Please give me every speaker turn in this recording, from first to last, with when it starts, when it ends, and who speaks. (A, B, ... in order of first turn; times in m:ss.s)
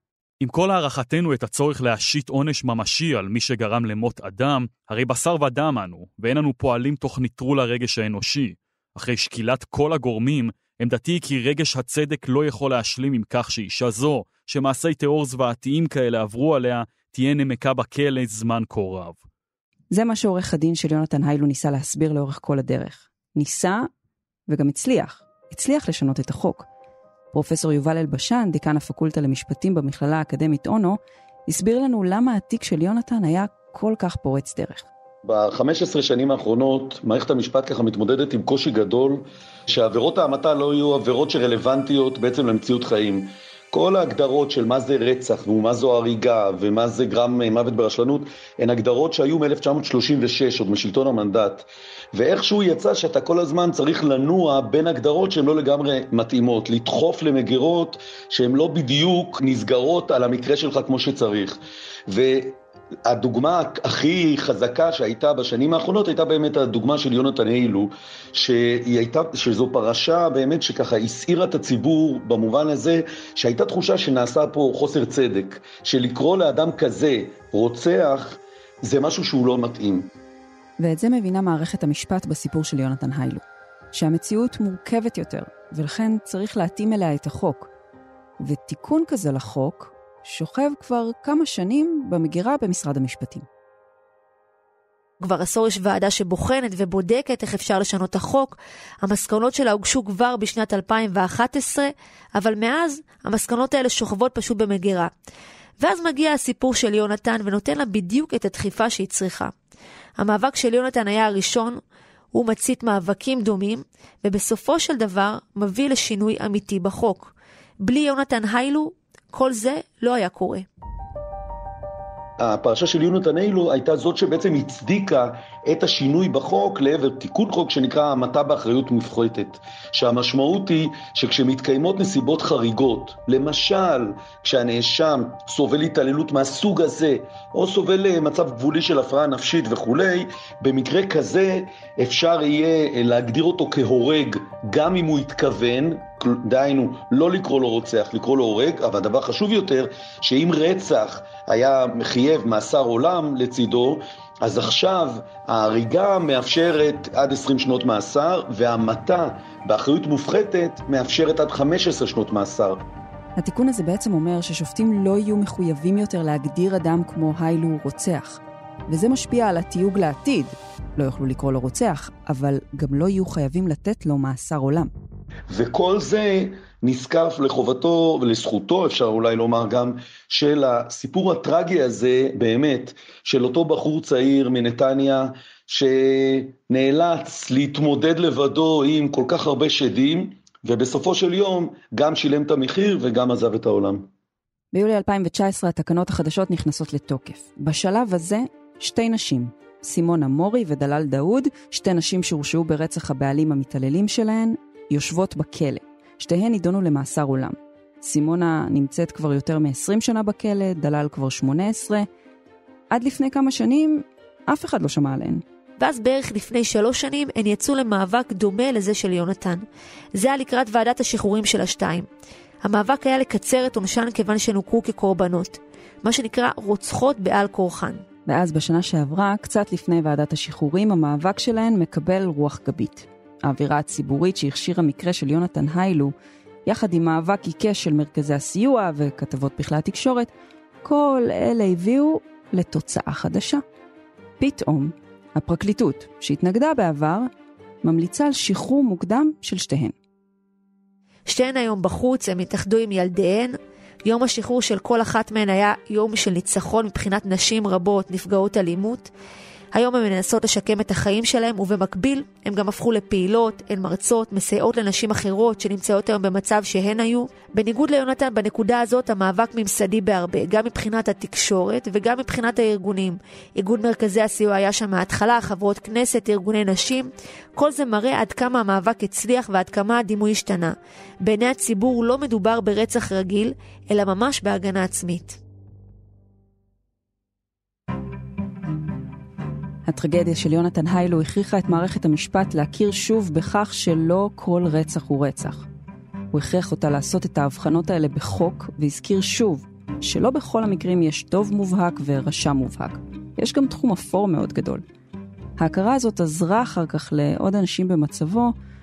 0:00.4-0:19.2 A
0:19.9-0:23.9 B
0:24.5-0:26.7 B
0:27.3-0:34.8 B
0:35.2-1:20.1 C
1:20.8-1:27.7 B
1:28.4-1:33.5 B
1:35.2-1:45.1 D
1:45.8-1:49.5 D
1:50.2-1:51.8 D
1:52.3-2:00.7 D
2:02.4-2:42.8 C
2:43.4-2:54.9 B
2:55.5-3:14.1 C
3:14.7-3:32.1 B
3:32.9-3:35.4 B
3:35.8-3:39.6 D
3:40.2-3:42.1 D
3:42.6-3:48.0 D
3:48.3-3:56.1 B
3:56.7-4:00.3 B
4:00.8-4:03.6 B
4:04.4-4:07.3 B
4:07.8-4:09.9 B
4:11.3-4:19.1 D
4:19.7-4:45.4 D
4:49.9-4:55.7 B
4:56.3-5:04.8 B
5:05.6-5:08.5 B